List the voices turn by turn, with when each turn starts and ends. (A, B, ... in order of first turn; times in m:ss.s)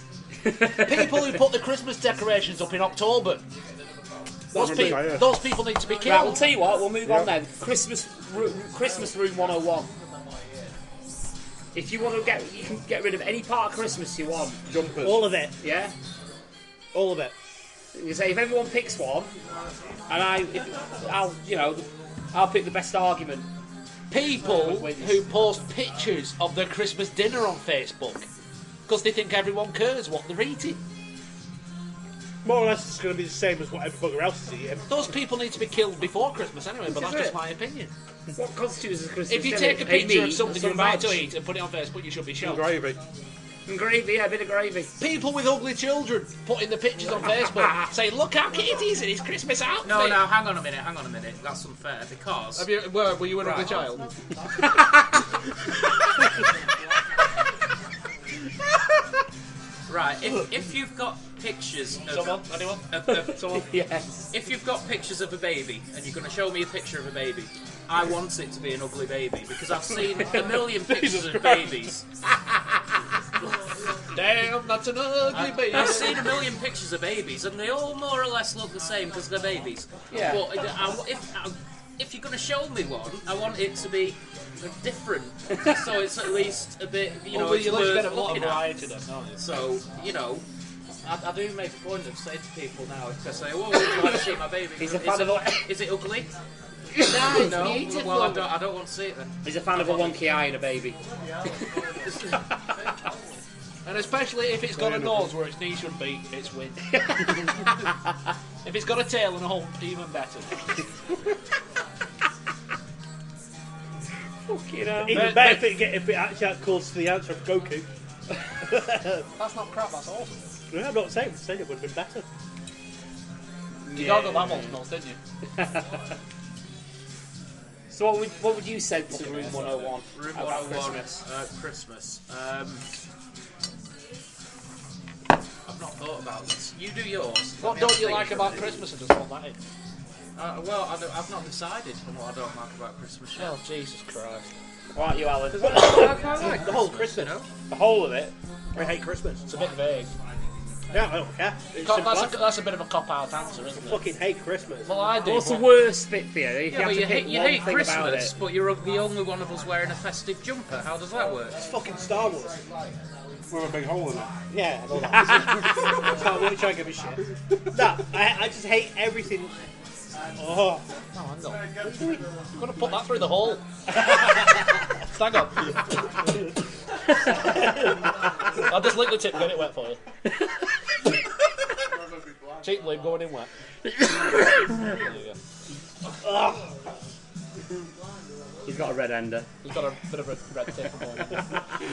0:00.5-0:01.0 A
0:00.8-0:03.4 B
0:04.5-0:05.3 C
0:04.5-0:06.4 B
0:06.0-0:09.9 A
0:07.0-0:07.3 C
0:11.7-0:14.6 A
0:14.7-0:15.3 C
0:15.0-0:15.5 D
0:15.6-0:15.9 A
0:16.9-0:17.3 D
0:17.9-0:19.3 A
0:20.1-0:23.5 A
0:24.1-0:28.2 B
0:24.4-0:25.3 A
0:28.9-0:30.8 B
0:32.4-0:34.9 D
0:34.9-0:37.9 B
0:36.9-0:37.3 A
0:38.4-0:41.2 A
0:39.3-0:42.7 B
0:42.4-0:43.0 C
0:43.7-0:44.9 A
0:45.0-0:50.2 B
0:49.8-0:52.7 E
0:52.6-0:54.1 B
0:53.4-0:53.8 E
0:59.9-1:03.6 E
1:02.1-1:03.6 B
1:03.1-1:04.0 A
1:04.3-1:12.0 E
1:14.1-1:16.5 B
1:15.3-1:28.7 E
1:20.1-1:20.4 A
1:27.3-1:29.4 B
1:29.3-1:30.4 E
1:31.0-1:36.3 E
1:34.8-1:35.7 A
1:37.0-1:40.2 E
1:37.1-1:38.5 B
1:39.4-1:41.0 A
1:43.8-1:46.8 B
1:44.7-1:45.3 C
1:48.6-1:50.6 B
1:54.5-1:55.6 A
1:55.0-1:57.8 D
1:55.1-1:55.6 B
1:58.7-1:59.2 D
1:59.4-2:00.4 B
2:00.7-2:02.2 D
2:03.9-2:04.7 A
2:03.9-2:05.2 B
2:07.9-2:11.2 A
2:09.1-2:12.8 E
2:15.7-2:18.8 E
2:17.6-2:19.6 B
2:20.4-2:23.6 E
2:23.4-2:24.5 B
2:24.9-2:26.1 A
2:25.6-2:27.5 E
2:25.6-2:27.3 D
2:27.7-2:28.3 A
2:28.7-2:29.4 D
2:29.5-2:30.1 B
2:30.9-2:32.4 D
2:31.8-2:34.0 B
2:33.8-2:34.9 D
2:34.8-2:35.6 B
2:35.2-2:38.3 A
2:36.7-2:41.6 E
2:41.6-2:42.6 D
2:43.5-2:44.3 C
2:44.5-2:47.2 D
2:47.7-2:49.5 D
2:50.4-2:50.8 D
2:51.1-2:51.7 B
2:52.5-2:53.6 B
2:55.1-2:55.7 B
2:58.6-3:00.0 B
3:02.6-3:03.5 B
3:04.8-3:05.3 B
3:06.2-3:06.7 D
3:08.6-3:09.5 A
3:09.6-3:11.4 B